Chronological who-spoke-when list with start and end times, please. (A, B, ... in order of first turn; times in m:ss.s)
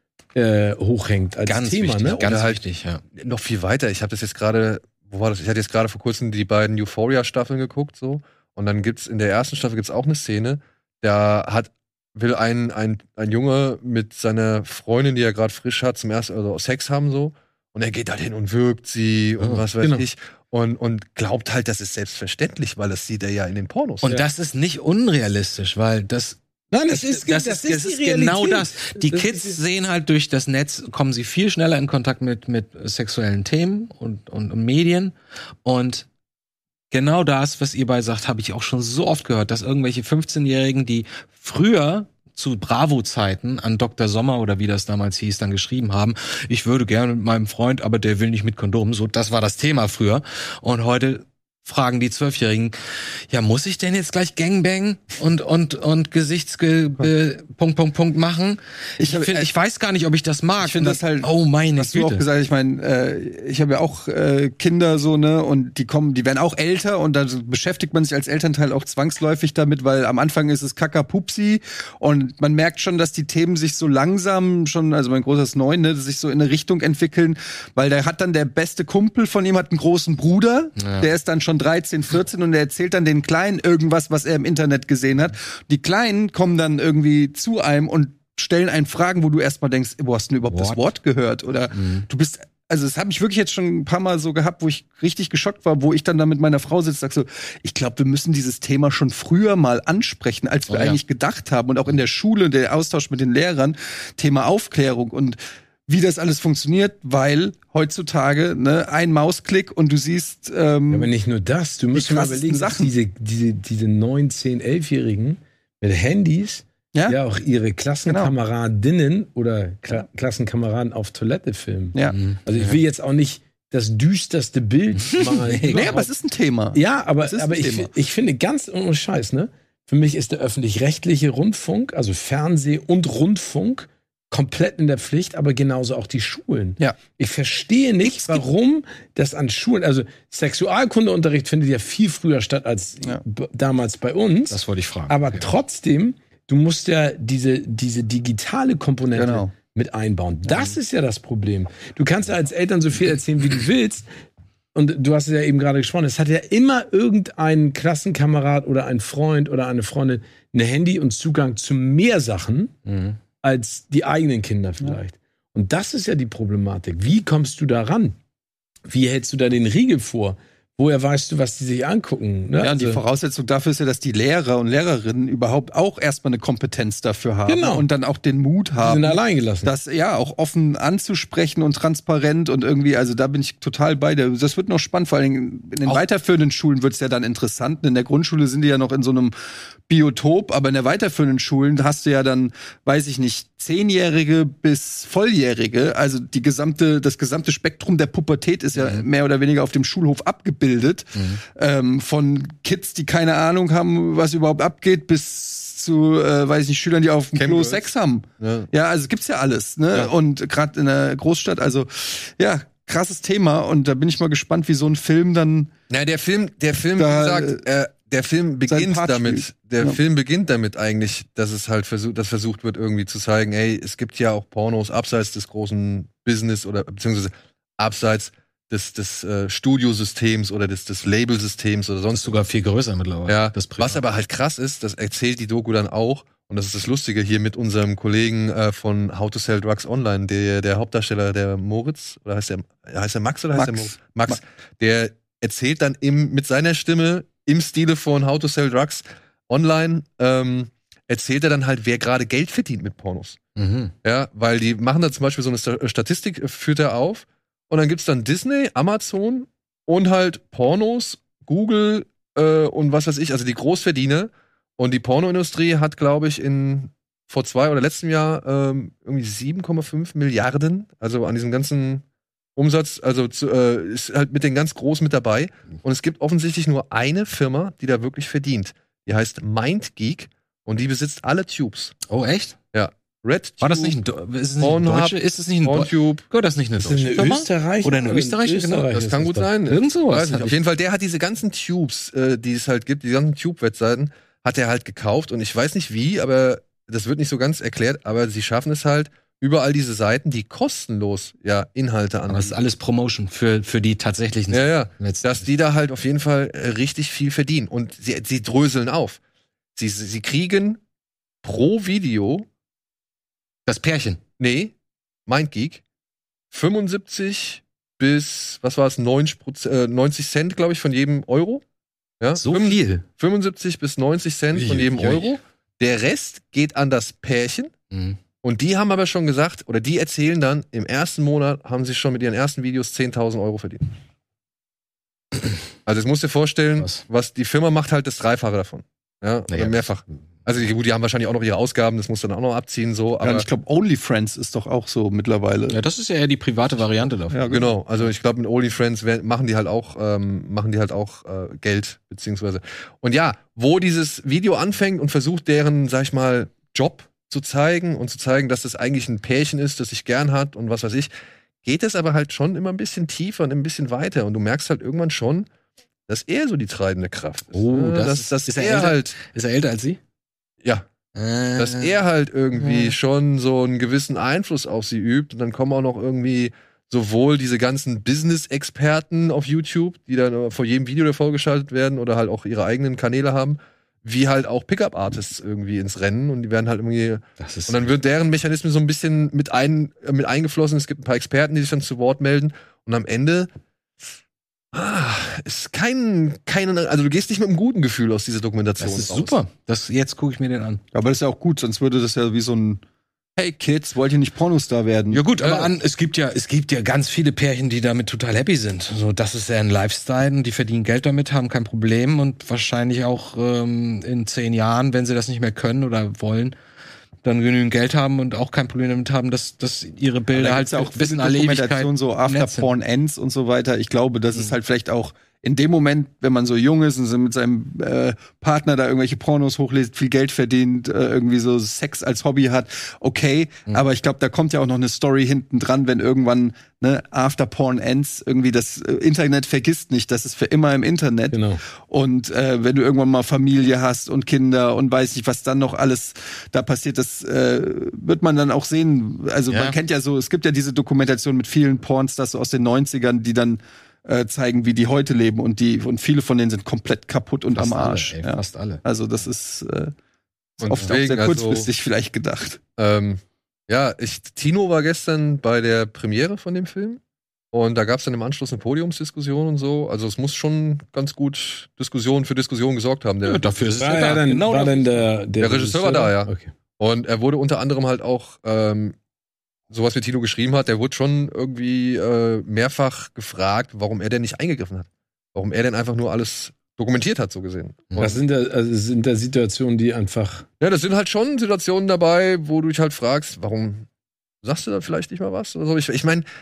0:00.4-0:02.2 A
0:01.5-0:03.0 B
0:02.2-0:02.6 C
0:03.2-0:24.1 C
0:19.8-0:20.1 A
0:24.0-0:35.1 B
0:26.7-0:29.6 A
0:35.6-0:36.1 B
0:36.9-0:52.8 B
0:53.3-1:02.2 B
0:59.0-0:59.5 D
1:00.6-1:51.1 D
1:20.8-1:21.1 B
1:30.5-1:30.8 B
1:31.7-1:32.1 B
1:40.7-1:41.0 B
1:50.9-2:06.1 A
1:51.9-1:52.9 D
1:56.9-1:57.2 D
1:58.1-1:58.3 D
2:02.1-2:02.7 B
2:05.1-2:06.0 B
2:05.6-2:07.9 D
2:06.7-2:34.1 A
2:24.5-2:25.5 B
2:29.2-2:29.5 D
2:34.7-2:42.8 A
2:42.9-2:43.2 B
2:43.4-2:48.2 A
2:48.9-2:53.0 A
2:52.6-3:09.3 D
2:57.5-2:57.9 A
2:58.8-2:59.7 A
3:09.9-3:35.7 D
3:18.8-3:19.1 B
3:21.2-3:21.4 B
3:27.4-3:28.7 C
3:35.9-3:52.4 C
3:37.0-3:37.6 D
3:38.7-3:40.0 D
3:52.1-3:54.0 B
3:53.3-4:13.4 C
4:03.6-4:04.4 D
4:13.6-4:13.9 B
4:14.0-4:32.0 C
4:32.6-4:42.0 C
4:42.1-4:42.6 B
4:42.7-4:44.0 C
4:43.6-4:48.9 B
4:44.6-4:46.2 C
4:46.8-4:49.5 A
4:48.9-5:02.6 C
4:49.7-4:50.6 B
5:02.3-5:05.5 B
5:04.5-5:09.2 C
5:09.8-5:10.8 C
5:11.4-5:12.5 C
5:13.7-5:14.2 B
5:14.4-5:14.7 C
5:15.3-5:15.8 C
5:16.5-5:21.6 C
5:22.2-5:27.7 C
5:22.4-5:23.0 B
5:24.5-5:25.4 B
5:27.9-5:28.2 B
5:28.4-5:33.8 C
5:35.9-5:43.5 C
5:39.5-5:39.8 B
5:43.2-5:45.8 D
5:45.7-5:47.4 B
5:47.3-5:47.8 D
5:47.5-6:01.1 C
6:01.6-6:05.5 C
6:06.1-6:09.2 C
6:07.5-6:10.0 B
6:11.2-6:12.0 B
6:11.6-6:33.5 C
6:12.6-6:12.9 B
6:27.4-6:27.9 B
6:34.7-6:39.4 C
6:38.8-6:40.8 B
6:40.9-6:42.8 D
6:43.4-6:45.2 D
6:45.1-6:56.6 B
6:45.4-6:45.7 C
6:57.2-7:02.7 B
7:00.3-7:39.9 D
7:21.3-7:21.6 A
7:29.5-7:29.8 B
7:37.5-7:38.8 B
7:40.6-7:41.7 C
7:40.6-7:42.6 D
7:42.8-7:47.0 C
7:47.5-7:53.5 C
7:53.2-7:55.1 B
7:53.8-7:56.5 A
7:55.4-7:59.0 C
7:59.7-8:08.2 C
8:08.0-8:10.5 A
8:10.6-8:13.9 C
8:14.4-8:16.3 C